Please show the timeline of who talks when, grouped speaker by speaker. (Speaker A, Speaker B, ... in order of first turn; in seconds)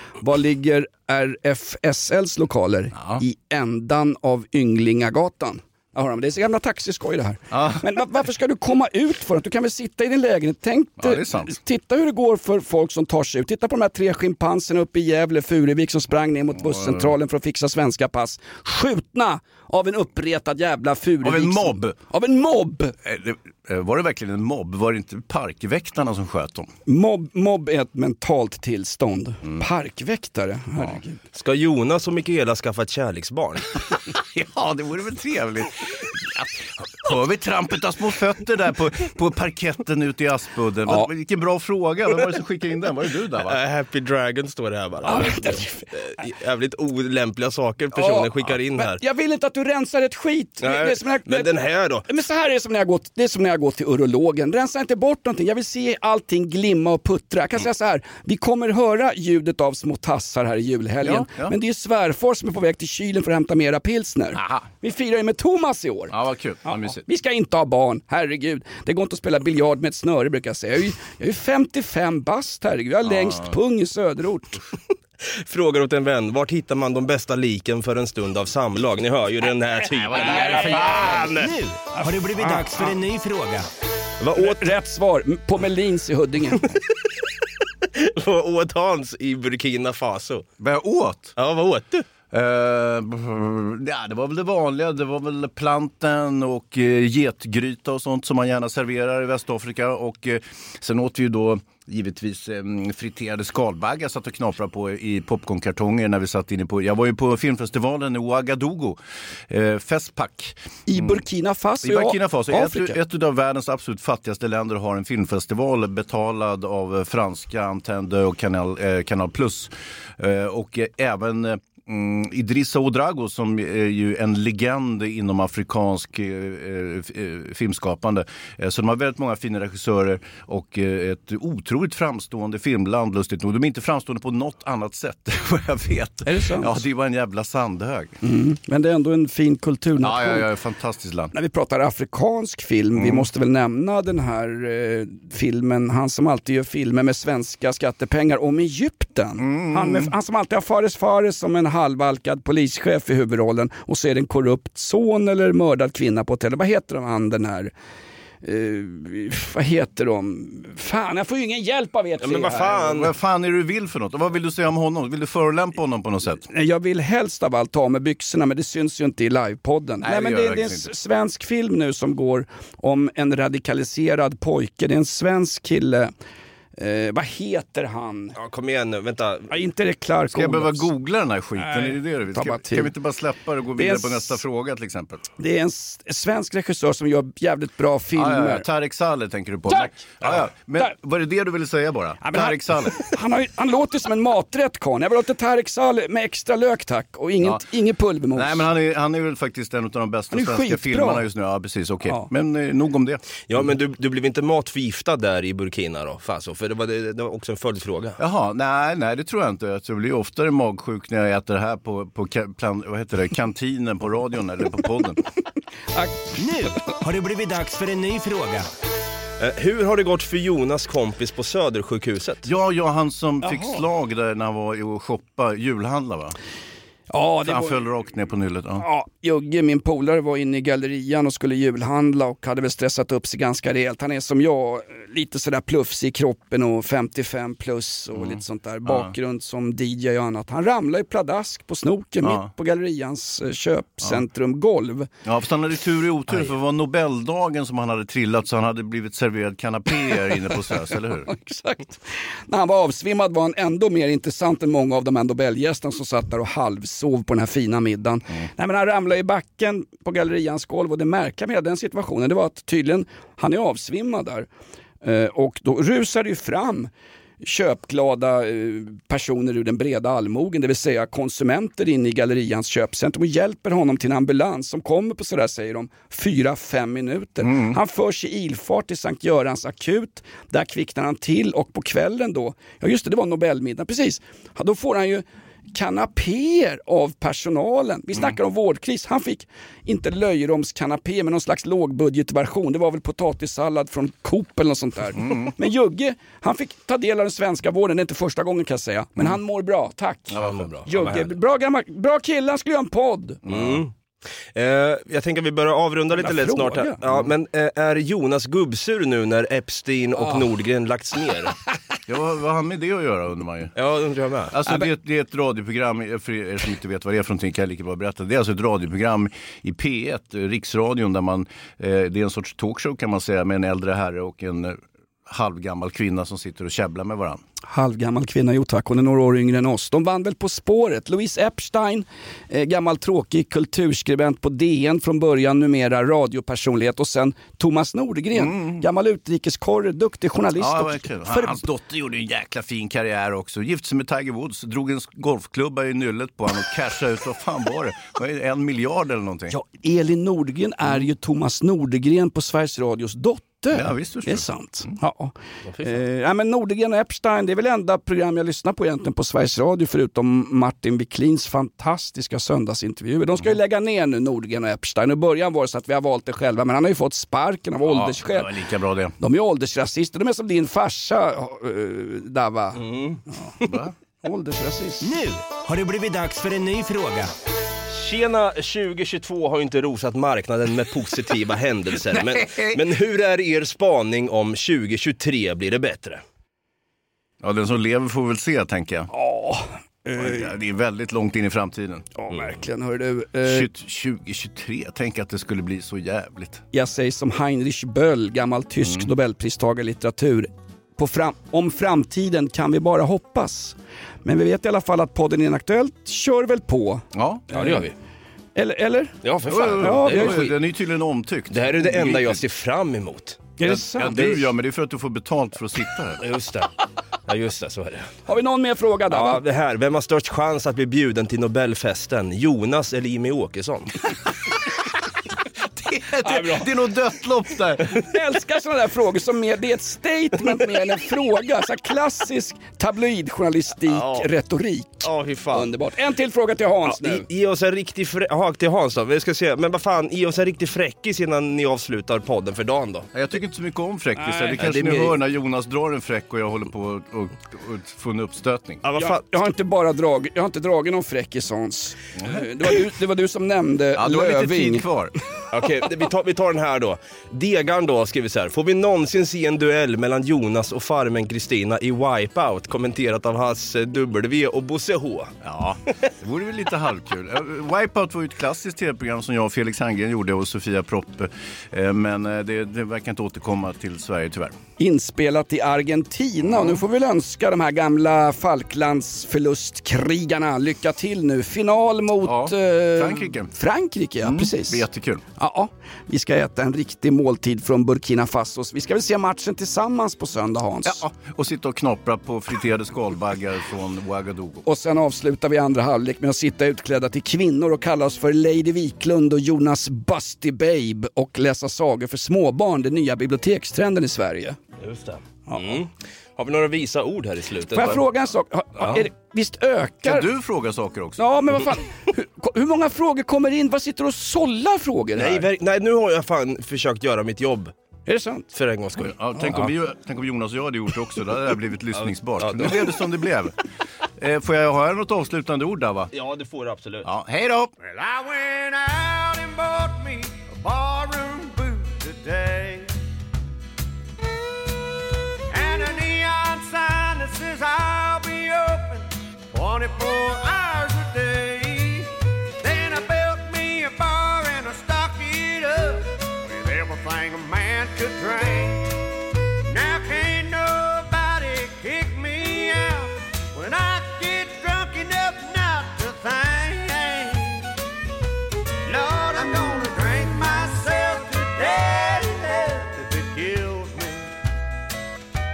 Speaker A: 0.2-22.9, 26.9-31.2, 45.0-45.9, 47.9-66.1, 66.7-74.6, 81.9-83.0, 84.3-86.7, 110.9-113.0, 136.2-136.8, 138.2-140.5, 141.3-157.7, 158.4-162.8, 166.5-176.1, 176.8-178.3, 179.5-180.9, 181.6-182.9, 183.8-184.4, 185.4-188.6, 189.7-190.9, 192.2-198.6, 200.3-201.2, 215.9-216.3, 223.4-223.8, 227.1-227.8, 228.8-245.1, 251.3-264.5, 265.0-266.9, 267.4-303.4, 306.2-307.0, 327.6-341.6, 349.5-368.5, 369.2-372.8, 374.2-375.1, 389.1-390.5, 392.1-393.7, 396.7-407.8, 408.6-409.2, 409.8-410.4, 413.6-414.4, 418.2-419.4, 426.2-426.7, 428.0-437.2, 444.2-444.6, 449.0-454.9, 474.8-484.8, 485.4-491.0, 494.6-504.6, 505.5-505.8, 507.7-510.3, 511.2-515.5, 518.1-518.5, 519.4-519.6
Speaker B: 2.9-3.2, 7.5-7.9, 11.0-11.6, 16.6-17.1, 21.2-21.9, 23.0-26.7, 34.1-43.6, 61.0-61.5, 64.3-64.7, 66.1-67.0, 73.0-73.5, 79.9-81.3, 90.6-91.3, 92.3-111.2, 111.8-138.1, 140.0-141.3, 142.9-143.3, 149.4-150.1, 162.7-166.5, 170.0-170.9, 180.3-185.2, 188.1-193.1, 198.3-203.2, 208.2-215.2, 222.4-226.3, 227.4-228.8, 238.1-239.1, 242.2-242.5, 245.2-251.3, 277.4-277.8, 295.2-295.5, 300.3-300.7, 303.4-303.8, 312.1-313.7, 314.5-327.4, 338.3-338.8, 340.6-349.6, 353.7-354.9, 367.8-369.1, 373.6-373.9, 382.0-382.9, 387.4-389.1, 390.1-392.1, 393.4-396.6, 398.8-399.1, 407.1-407.4, 409.5-412.4, 413.6-416.2, 425.7-428.0, 443.1-448.8, 452.2-452.4, 453.9-455.1, 465.4-474.6, 476.4-476.8, 482.2-483.5, 484.2-485.2, 490.8-494.6, 510.0-511.2, 519.0-523.5, 524.2-526.1, 527.0-527.7
Speaker C: 31.3-33.7, 43.4-49.0, 50.6-52.1, 75.2-81.5, 84.2-84.7, 87.8-90.5, 91.3-92.0, 162.2-163.1, 178.3-179.5, 203.5-208.2, 219.4-222.5, 300.4-301.3, 303.5-303.9, 304.5-311.6, 313.8-314.6, 372.8-373.7, 377.9-386.2, 407.5-407.9, 409.2-410.5, 411.5-413.4, 416.2-416.7, 417.3-418.1, 419.1-424.0, 433.9-434.3, 435.0-435.7, 436.9-443.1, 444.6-445.2, 448.8-449.2, 455.5-465.3, 504.8-508.0, 515.2-517.7, 518.5-519.6, 522.0-522.9, 526.1-527.1
Speaker D: 81.3-83.6, 216.4-218.7, 375.0-377.3
Speaker E: 527.8-532.9, 535.5-549.1, 549.6-557.7, 558.8-564.3